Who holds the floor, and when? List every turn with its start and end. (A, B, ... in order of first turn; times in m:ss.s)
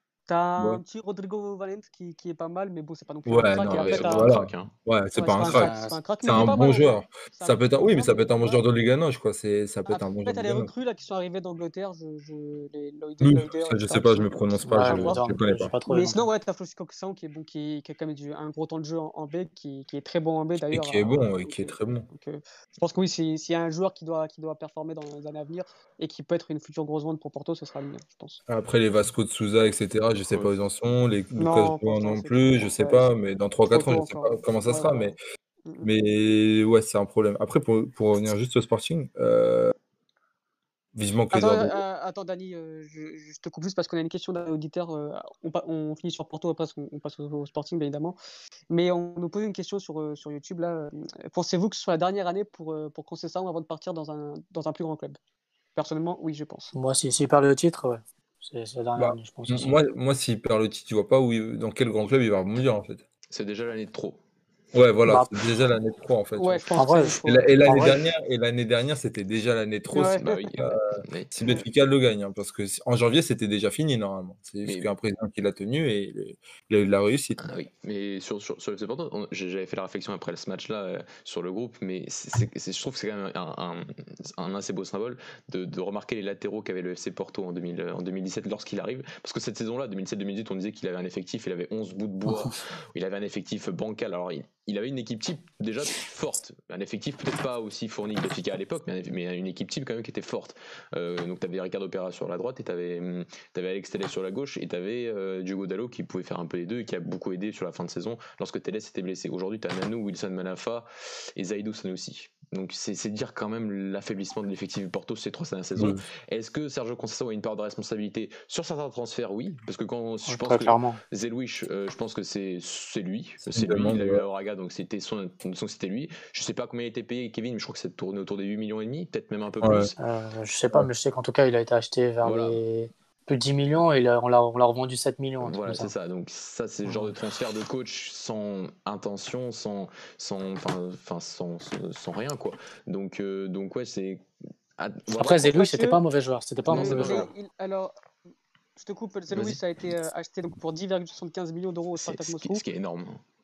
0:00.3-0:04.3 A
0:03.2-0:05.7 B
0:03.6-0:04.7 C
0:05.2-0:08.6 A
0:05.4-0:06.5 D
0:06.2-0:10.7 B
0:09.8-0:15.3 A
0:13.2-0:15.7 B
0:14.7-0:16.2 D
0:15.9-0:28.4 A
0:20.7-0:22.1 B
0:28.5-0:35.2 B
0:30.3-0:30.5 C
0:31.4-0:33.1 A
0:33.6-0:35.1 A
0:35.8-0:39.7 B
0:40.9-0:41.8 B
0:41.3-0:48.2 A
0:48.7-0:55.2 A
0:55.8-0:56.7 A
0:56.7-0:59.8 D
0:59.0-1:03.0 B
1:03.3-1:04.2 C
1:04.7-1:06.6 B
1:05.0-1:05.4 D
1:06.4-1:07.7 A
1:06.8-1:08.0 D
1:07.2-1:17.5 B
1:09.9-1:10.4 A
1:10.0-1:11.3 C
1:14.6-1:14.9 C
1:17.4-2:10.0 C
1:55.8-1:56.0 B
2:00.3-2:01.0 D
2:03.4-2:04.2 B
2:09.6-2:09.9 B
2:10.0-2:15.9 D
2:12.2-2:12.6 C
2:15.4-2:24.2 C
2:24.8-2:25.6 C
2:25.1-2:27.3 D
2:25.5-2:26.0 A
2:26.7-2:27.3 C
2:26.7-2:27.9 A
2:28.8-2:32.6 A
2:29.3-2:29.6 C
2:32.0-2:33.2 C